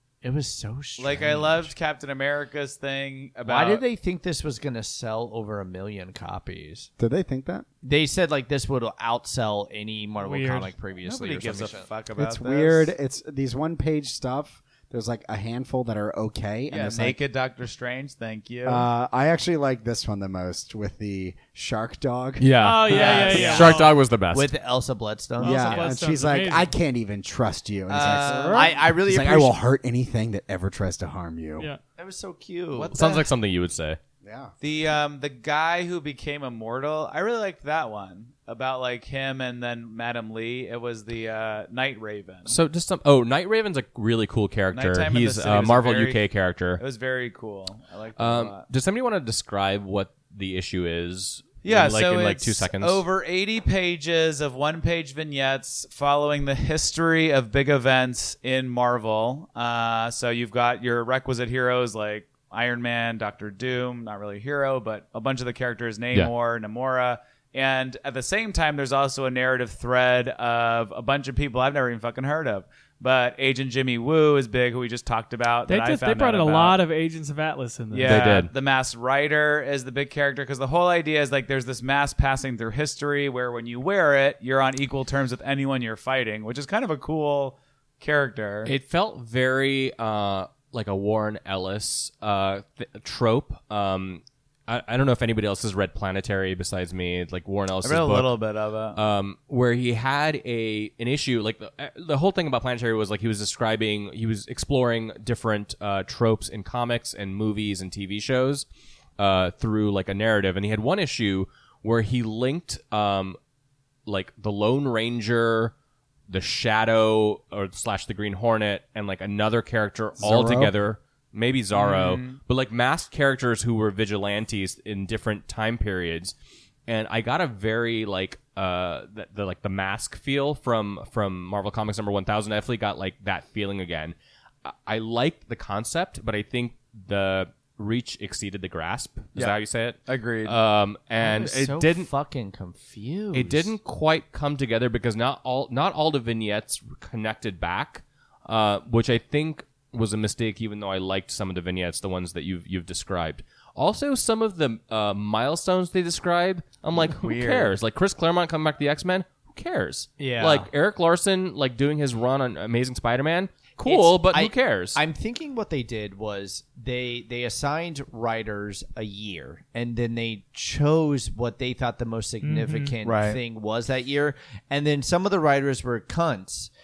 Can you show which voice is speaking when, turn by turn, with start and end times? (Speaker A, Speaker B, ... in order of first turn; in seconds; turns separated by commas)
Speaker A: 0.2-1.7, Speaker B: 1.0-3.8, Speaker A: 3.5-6.9, Speaker C: 7.0-7.7, Speaker A: 7.8-11.9, Speaker D: 10.2-10.8, Speaker B: 11.0-12.9, Speaker C: 12.2-17.2, Speaker B: 16.7-18.9, Speaker C: 18.6-22.5, Speaker E: 22.4-24.5, Speaker D: 22.6-23.9, Speaker B: 22.9-23.8, Speaker A: 23.0-25.9, Speaker D: 25.4-26.7, Speaker C: 25.4-31.7, Speaker B: 27.9-28.9, Speaker A: 28.0-29.6, Speaker A: 32.0-33.0, Speaker B: 32.7-33.3, Speaker E: 33.0-34.0, Speaker C: 34.2-34.5, Speaker B: 34.6-42.6, Speaker E: 42.5-46.8, Speaker B: 44.7-48.6, Speaker E: 48.2-53.0, Speaker B: 51.6-76.8, Speaker D: 75.7-78.4, Speaker B: 77.9-88.7, Speaker E: 78.0-78.5, Speaker E: 88.7-98.3, Speaker B: 97.8-99.0, Speaker E: 99.0-108.7, Speaker E: 109.2-113.4, Speaker E: 114.1-115.7, Speaker E: 116.3-126.3, Speaker C: 120.2-120.7, Speaker B: 121.7-122.4, Speaker E: 126.9-142.1, Speaker B: 139.3-140.6, Speaker A: 141.2-143.7, Speaker E: 143.3-165.0, Speaker B: 157.2-157.7, Speaker A: 160.2-160.7, Speaker A: 163.8-176.7, Speaker D: 172.4-172.9, Speaker B: 173.0-173.4